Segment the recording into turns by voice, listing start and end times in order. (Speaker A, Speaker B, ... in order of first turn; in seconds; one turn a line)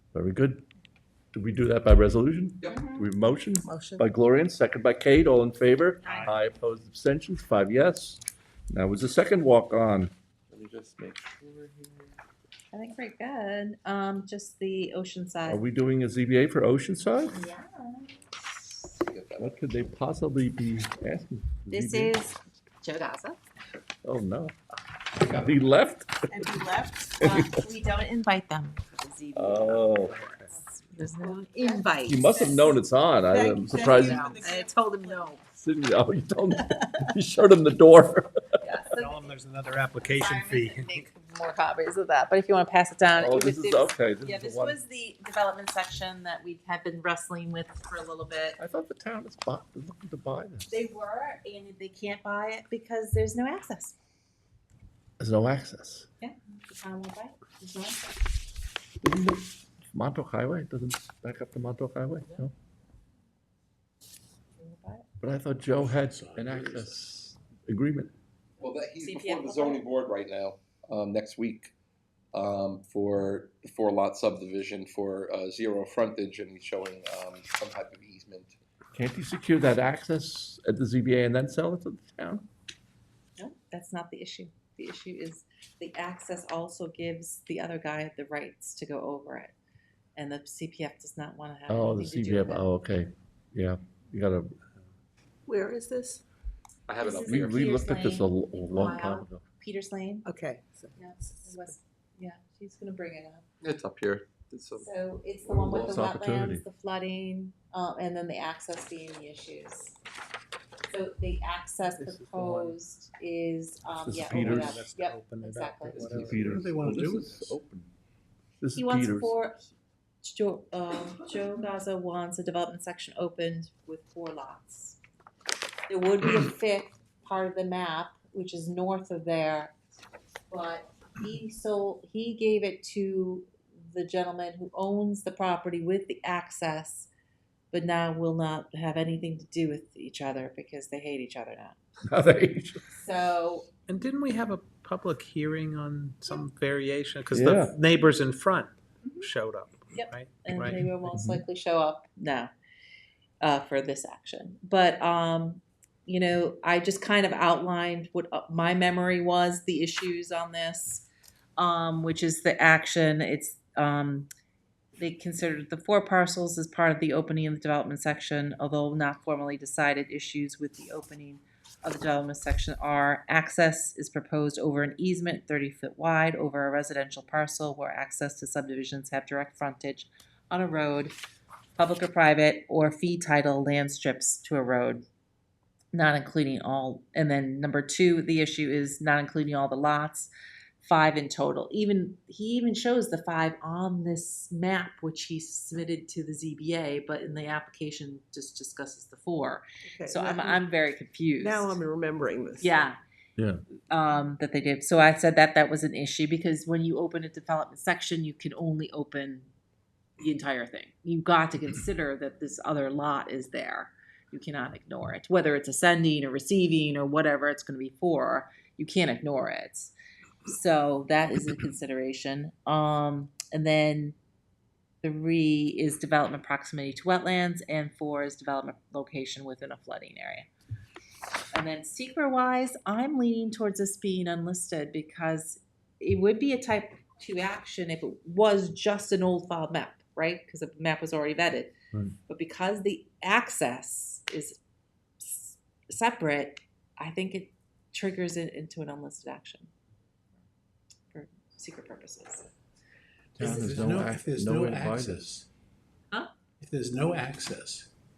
Speaker A: 0.1-0.6
Speaker A: 1.3-10.1
Speaker B: 2.6-3.0
Speaker C: 3.7-4.0
Speaker D: 10.5-12.1
Speaker B: 12.7-15.6
Speaker A: 15.5-17.4
Speaker B: 17.3-18.1
Speaker D: 18.4-19.6
Speaker A: 19.4-22.1
Speaker B: 21.7-23.4
Speaker A: 24.0-24.5
Speaker A: 25.2-26.5
Speaker C: 26.3-27.1
Speaker A: 27.2-27.5
Speaker B: 27.2-32.4
Speaker A: 29.4-30.1
Speaker C: 31.1-32.6
Speaker A: 32.0-34.4
Speaker C: 33.3-35.1
Speaker B: 33.8-35.4
Speaker A: 35.6-38.8
Speaker B: 38.6-39.4
Speaker E: 38.9-40.9
Speaker B: 40.0-48.6
Speaker A: 43.1-44.8
Speaker A: 48.6-50.7
Speaker B: 50.7-54.0
Speaker A: 55.2-56.0
Speaker B: 56.2-58.1
Speaker A: 59.0-62.5
Speaker B: 64.6-65.0
Speaker A: 65.2-68.1
Speaker E: 65.9-67.0
Speaker D: 68.6-71.7
Speaker B: 69.0-69.8
Speaker D: 72.3-78.5
Speaker A: 78.9-82.4
Speaker B: 83.4-89.5
Speaker B: 90.2-92.7
Speaker A: 91.7-94.5
Speaker C: 95.5-96.2
Speaker D: 96.9-97.7
Speaker B: 97.0-100.3
Speaker A: 97.3-99.4
Speaker C: 100.2-100.9
Speaker B: 101.0-103.5
Speaker D: 103.6-104.9
Speaker B: 104.8-110.0
Speaker A: 105.5-106.6
Speaker B: 110.9-116.1
Speaker F: 112.0-112.8
Speaker A: 114.0-114.8
Speaker F: 114.3-116.2
Speaker D: 115.8-116.6
Speaker A: 116.0-117.9
Speaker E: 116.2-117.6
Speaker A: 118.6-119.3
Speaker B: 118.8-119.7
Speaker B: 120.2-125.0
Speaker B: 125.9-129.7
Speaker B: 130.5-137.1
Speaker B: 137.7-141.8
Speaker A: 142.1-142.8
Speaker B: 142.9-143.7
Speaker F: 143.9-150.8
Speaker A: 147.3-147.7
Speaker B: 149.9-152.5
Speaker A: 150.7-151.4
Speaker B: 153.4-161.1
Speaker B: 161.6-164.3
Speaker B: 165.0-181.1
Speaker B: 181.8-185.0
Speaker B: 185.9-201.8
Speaker C: 199.9-200.6
Speaker C: 201.4-202.8
Speaker B: 202.6-203.0
Speaker A: 203.4-203.6
Speaker B: 203.9-209.5
Speaker B: 210.2-219.9
Speaker B: 220.4-224.1
Speaker B: 225.0-230.5
Speaker B: 231.5-241.7
Speaker B: 242.3-244.6
Speaker B: 245.2-249.7
Speaker B: 251.1-252.5
Speaker A: 253.4-255.2
Speaker E: 253.4-255.5
Speaker E: 256.6-257.9